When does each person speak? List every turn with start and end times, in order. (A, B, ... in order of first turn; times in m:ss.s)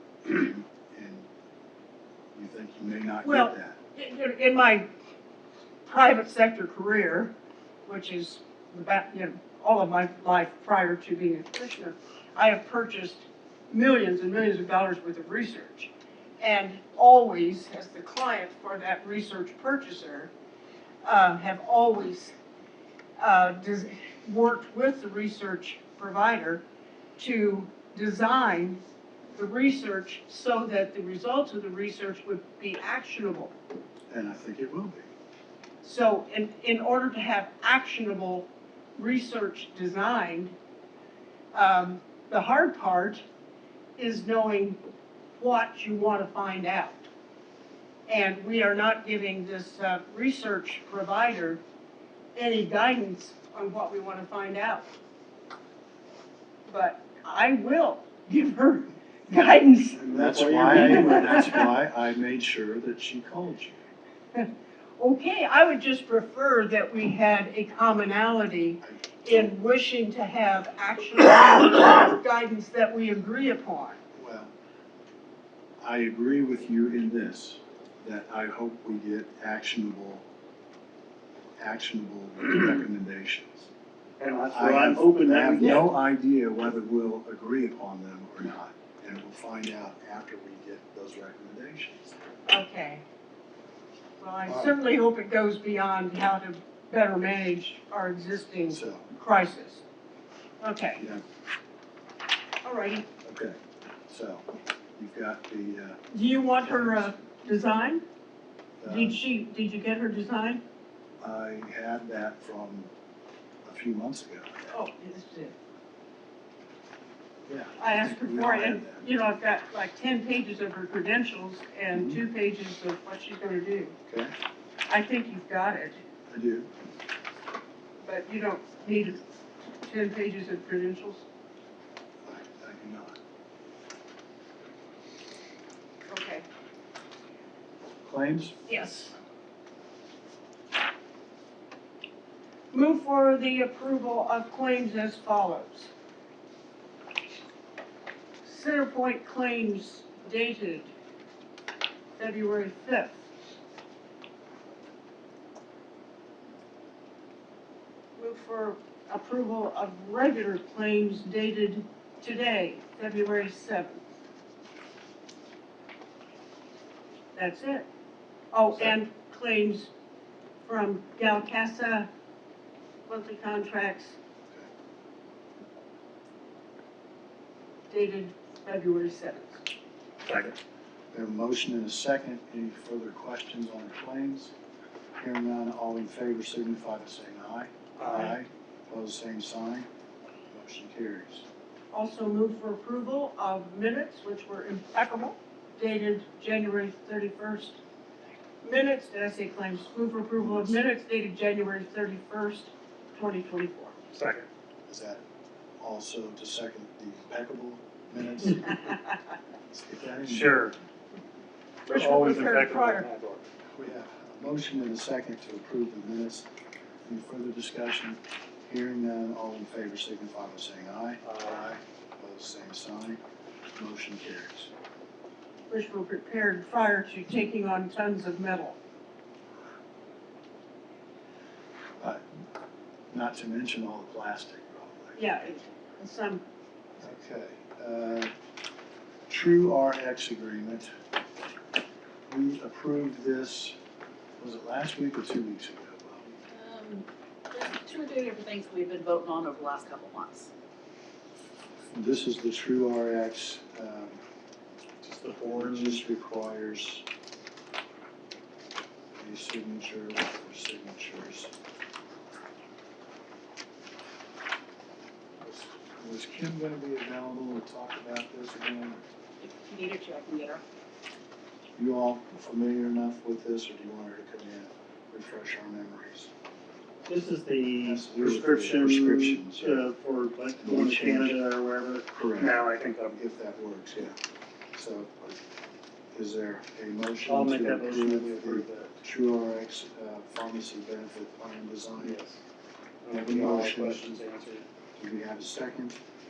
0:00.2-0:01.3 A
0:02.3-0:03.8 A
0:03.2-0:04.9 B
0:05.8-0:07.3 B
0:07.8-0:20.3 B
0:21.0-0:22.3 B
0:23.2-0:26.6 B
0:27.2-0:28.8 B
0:29.3-0:33.5 B
0:34.1-0:35.1 A
0:35.8-0:40.5 B
0:41.5-0:43.2 B
0:44.0-0:44.8 B
0:45.4-0:47.0 B
0:48.1-0:51.6 B
0:52.3-0:54.9 B
0:56.7-1:00.0 B
1:00.0-1:01.6 C
1:00.1-1:03.8 A
1:00.7-1:01.6 B
1:04.3-1:14.0 B
1:08.8-1:09.5 A
1:14.1-1:14.5 A
1:15.8-1:20.2 A
1:21.6-1:23.7 A
1:24.2-1:25.9 C
1:24.5-1:32.2 A
1:32.5-1:33.0 B
1:34.2-1:39.8 B
1:34.4-1:34.7 A
1:38.6-1:39.1 A
1:40.6-1:41.0 B
1:41.0-1:41.2 A
1:42.6-1:43.1 B
1:43.2-1:46.0 A
1:46.1-1:48.0 B
1:46.6-1:47.1 A
1:48.8-1:49.2 A
1:48.8-1:50.6 B
1:51.2-1:52.9 A
1:53.6-1:54.5 A
1:54.6-1:55.5 B
1:57.5-1:59.0 A
1:57.8-2:03.9 B
2:01.9-2:02.2 A
2:04.9-2:06.0 B
2:06.3-2:06.7 A
2:08.0-2:09.2 B
2:09.8-2:11.2 B
2:12.2-2:13.2 A
2:16.1-2:16.4 B
2:18.0-2:18.6 A
2:18.7-2:19.1 B
2:22.7-2:25.9 B
2:28.4-2:30.9 B
2:32.2-2:33.2 B
2:38.2-2:44.0 B
2:47.3-2:47.9 B
2:48.5-2:49.9 B
2:50.6-2:52.1 B
2:53.1-2:54.2 B
2:57.9-2:59.6 B
3:00.2-3:00.5 C
3:01.1-3:04.5 A
3:05.2-3:09.9 A
3:08.0-3:08.3 C
3:10.5-3:11.4 A
3:11.9-3:17.8 B
3:18.6-3:23.9 B
3:20.4-3:20.8 A
3:24.1-3:24.4 C
3:24.9-3:25.2 A
3:25.8-3:28.9 A
3:29.7-3:30.7 A
3:30.2-3:30.8 C
3:31.8-3:33.4 C
3:31.9-3:33.0 B
3:33.7-3:36.5 A
3:37.0-3:43.2 A
3:41.2-3:41.5 C
3:43.7-3:44.7 A
3:45.7-3:48.8 B
3:53.1-3:55.2 A
3:55.2-3:56.4 B
3:57.0-3:58.3 A
3:59.3-4:00.9 A
4:02.3-4:03.8 A
4:04.4-4:06.3 A
4:06.5-4:10.5 D
4:11.9-4:14.2 A
4:15.0-4:16.0 C
4:15.4-4:17.0 A
4:19.2-4:21.5 A
4:25.4-4:29.1 A
4:29.4-4:30.6 D
4:31.8-4:36.3 A
4:37.0-4:43.2 C
4:37.8-4:39.8 A
4:40.6-4:41.4 A
4:42.1-4:44.2 A
4:44.7-4:45.3 A
4:46.1-4:52.2 A
4:47.2-4:49.0 C
4:52.0-4:52.4 C
4:53.0-4:54.6 C
4:53.1-4:54.2 A
4:55.0-4:56.0 A